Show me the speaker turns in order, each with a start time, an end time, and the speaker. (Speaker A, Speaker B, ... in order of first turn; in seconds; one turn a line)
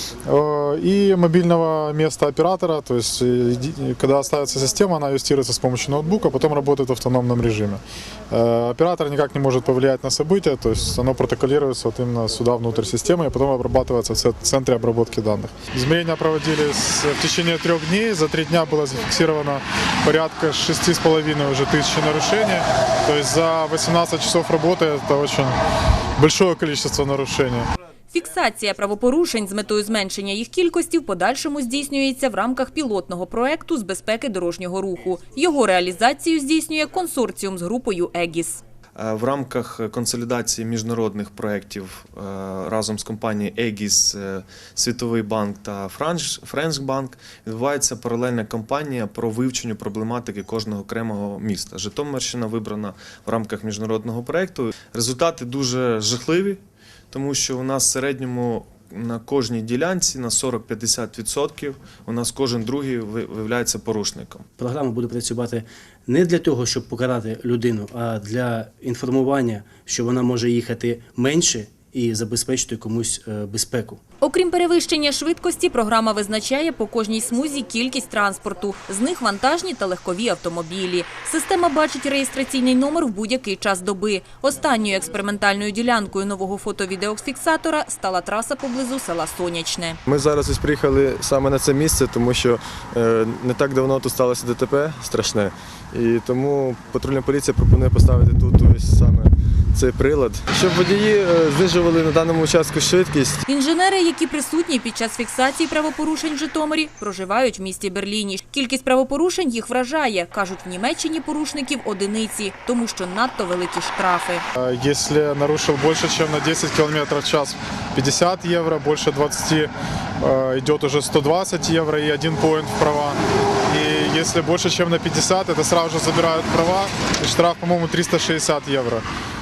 Speaker A: 0.2-25.5
Speaker A: 26.2-27.7
Speaker B: 28.1-38.6
Speaker C: 39.0-56.6
Speaker C: 57.1-64.5
Speaker D: 64.6-74.0
Speaker B: 74.2-90.0
Speaker E: 90.1-103.4
Speaker B: 103.5-114.4
Speaker A: 114.6-129.0